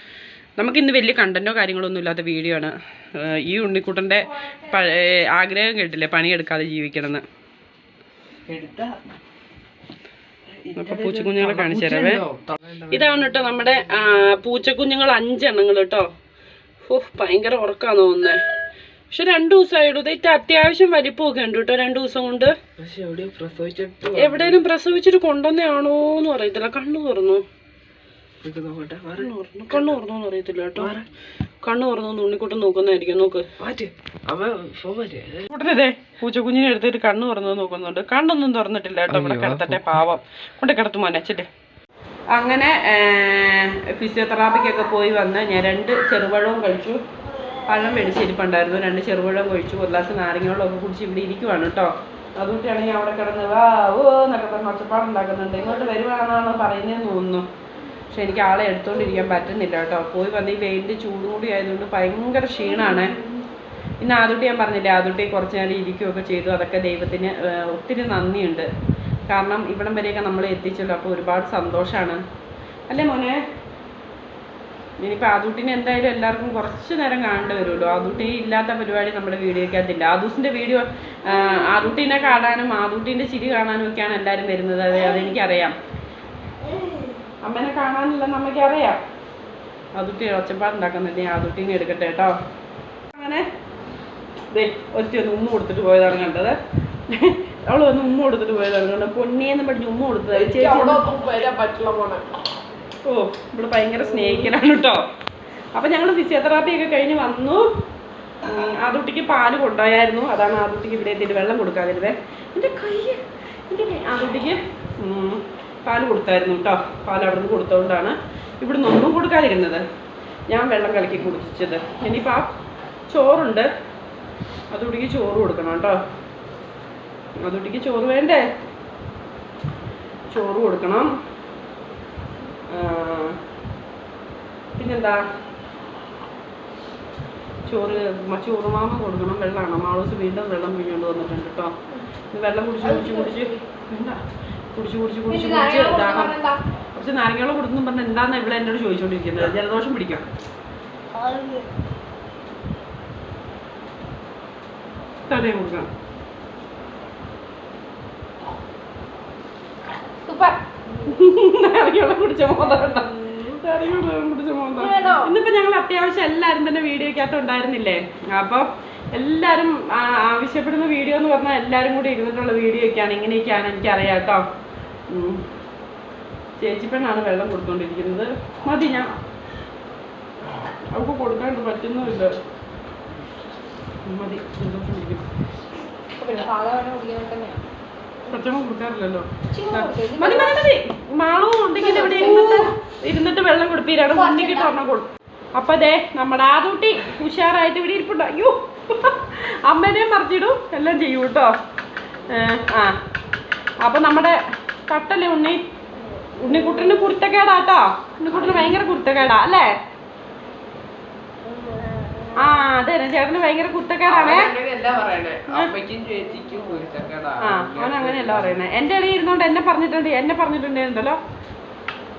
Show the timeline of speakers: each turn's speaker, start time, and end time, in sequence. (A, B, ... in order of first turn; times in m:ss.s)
0:00.6-0:07.2 A
0:08.5-0:09.0 B
0:10.6-0:13.2 B
0:10.8-0:12.2 A
0:12.9-0:16.1 A
0:16.8-0:18.4 A
0:19.1-0:22.6 A
0:22.8-0:24.6 B
0:24.1-0:27.4 A
0:28.4-0:30.0 B
0:29.2-0:30.9 A
0:30.8-0:31.0 B
0:31.6-0:33.5 A
0:33.6-0:35.4 B
0:35.5-0:41.5 A
0:39.1-0:40.1 B
0:42.3-0:47.0 A
0:47.7-0:57.5 A
0:58.1-1:03.2 A
1:04.0-1:08.7 A
1:09.3-1:12.2 A
1:12.9-1:13.4 A
1:15.0-1:25.7 A
1:26.7-1:27.1 C
1:27.4-1:29.0 A
1:29.9-1:32.3 A
1:33.1-1:33.4 A
1:34.5-1:36.6 A
1:37.1-1:41.1 A
1:40.3-1:42.2 B
1:43.0-1:45.0 A
1:45.8-1:47.7 A
1:48.4-1:59.8 A
2:00.5-2:02.5 A
2:03.1-2:03.7 A
2:04.7-2:06.0 A
2:07.4-2:08.4 A
2:10.3-2:11.1 A
2:12.7-2:13.4 A
2:14.8-2:15.3 A
2:17.6-2:21.8 A
2:22.3-2:24.2 A
2:22.8-2:23.6 C
2:24.7-2:26.3 A
2:25.3-2:26.6 C
2:26.9-2:30.2 A
2:31.1-2:31.7 C
2:35.3-2:35.9 A
2:40.2-2:41.0 C
2:41.0-2:54.4 A
2:42.7-2:43.5 C
2:44.7-2:45.3 C
2:55.1-2:55.4 A
2:56.6-2:59.1 A
3:00.9-3:02.4 A
3:04.0-3:05.2 A
3:06.2-3:07.6 C
3:08.3-3:21.5 A
3:09.5-3:10.6 C
3:11.8-3:12.7 C
3:14.1-3:14.8 C
3:22.3-3:23.0 A
3:23.8-3:25.6 A
3:26.4-3:29.8 A
3:26.4-3:27.0 C
3:28.3-3:28.8 B
3:31.4-3:32.6 C
3:32.4-3:34.5 A
3:34.0-3:38.6 B
3:37.4-3:41.2 A